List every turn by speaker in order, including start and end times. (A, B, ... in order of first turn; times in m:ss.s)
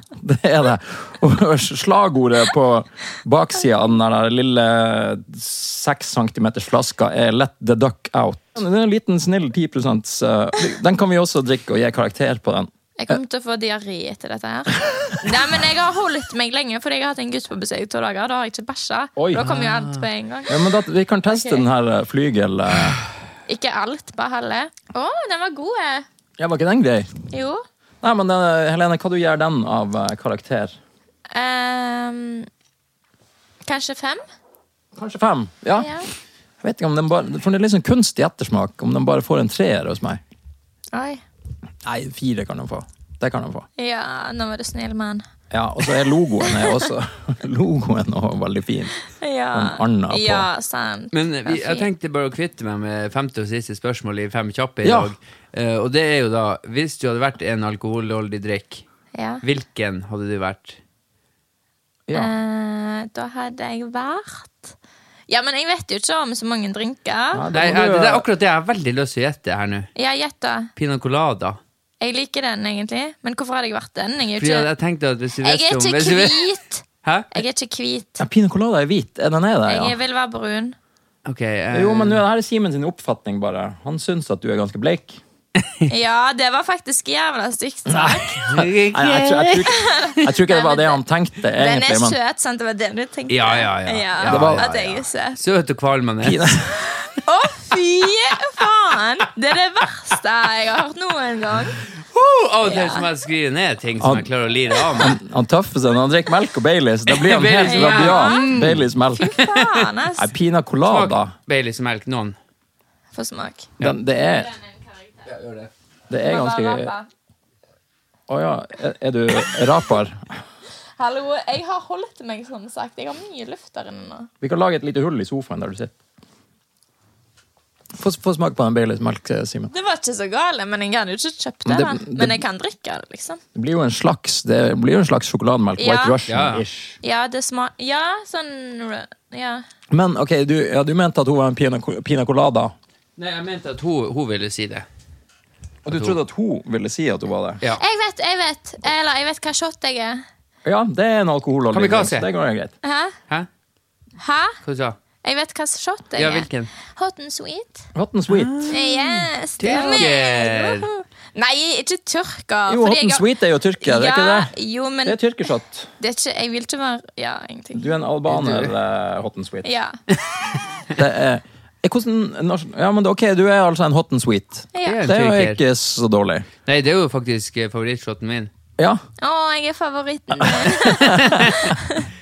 0:00.2-0:13.2 A
0:13.0-0:20.6 B
0:19.2-0:19.5 A
0:19.4-0:20.0 C
0:20.5-0:23.0 A
0:21.3-0:21.6 B
0:23.5-0:26.1 B
0:26.4-0:27.1 A
0:27.3-0:27.6 B
0:28.0-0:30.8 A
0:31.3-0:32.5 B
0:33.6-0:34.2 B
0:35.0-0:35.9 A
0:35.8-0:36.1 B
0:36.6-0:40.2 A
0:40.9-0:41.2 B
0:41.8-0:43.7 A
0:43.8-0:45.3 B
0:45.5-0:48.9 A
0:46.5-0:46.8 B
0:49.2-0:51.9 B
0:49.5-0:50.5 A
0:51.1-0:58.8 C
0:54.8-0:55.1 A
0:59.2-0:59.4 B
0:59.4-1:00.8 C
1:02.1-1:02.3 A
1:02.1-1:04.8 B
1:05.3-1:07.4 B
1:07.3-1:08.3 A
1:07.5-1:09.9 C
1:10.0-1:10.7 B
1:10.8-1:11.6 C
1:12.0-1:14.7 B
1:14.4-1:16.5 C
1:15.4-1:18.2 B
1:17.0-1:17.3 C
1:18.2-1:20.0 A
1:19.7-1:20.8 B
1:21.2-1:22.2 C
1:21.7-1:25.2 A
1:25.6-1:25.9 C
1:25.9-1:28.5 B
1:27.9-1:32.2 A
1:28.4-1:29.7 C
1:29.5-1:31.0 B
1:31.6-1:35.4 B
1:33.3-1:34.7 C
1:34.2-1:35.0 A
1:35.4-1:36.6 C
1:36.2-1:36.8 A
1:37.0-1:41.8 B
1:41.9-1:45.2 C
1:42.6-1:43.1 B
1:44.0-1:44.3 A
1:44.9-1:49.4 A
1:47.1-1:49.9 C
1:47.6-1:48.6 B
1:49.2-1:50.3 B
1:50.2-1:51.3 A
1:50.9-1:52.4 C
1:53.1-1:53.7 B
1:53.8-1:54.5 A
1:54.6-1:55.0 B
1:55.2-1:55.7 C
1:56.1-1:56.9 A
1:56.2-1:57.1 B
1:58.3-2:00.2 A
2:01.0-2:04.3 B
2:04.4-2:05.9 A
2:08.0-2:09.7 A
2:09.7-2:13.4 B
2:11.6-2:12.4 A
2:13.6-2:17.0 A
2:15.8-2:16.2 B
2:16.3-2:16.6 C
2:17.0-2:19.6 B
2:19.9-2:22.7 A
2:23.2-2:24.9 C
2:25.8-2:27.6 A
2:25.9-2:26.2 C
2:27.8-2:30.2 B
2:30.6-2:32.7 A
2:31.7-2:32.3 C
2:32.8-2:33.2 B
2:34.2-2:34.6 B
2:34.6-2:35.0 C
2:35.2-2:37.9 B
2:36.2-2:36.7 C
2:38.0-2:38.8 A
2:38.3-2:40.9 C
2:38.7-2:43.2 B
2:39.8-2:40.0 A
2:42.7-2:44.5 A
2:43.8-2:45.2 B
2:45.0-2:45.9 A
2:46.0-2:47.9 B
2:47.8-2:49.7 A
2:48.3-2:48.7 C
2:49.6-2:50.0 B
2:50.9-2:56.5 A
2:54.7-2:55.1 B
2:54.8-2:55.6 C
2:56.6-2:58.5 C
2:59.2-3:02.1 B
3:00.4-3:01.6 A
3:00.8-3:01.6 C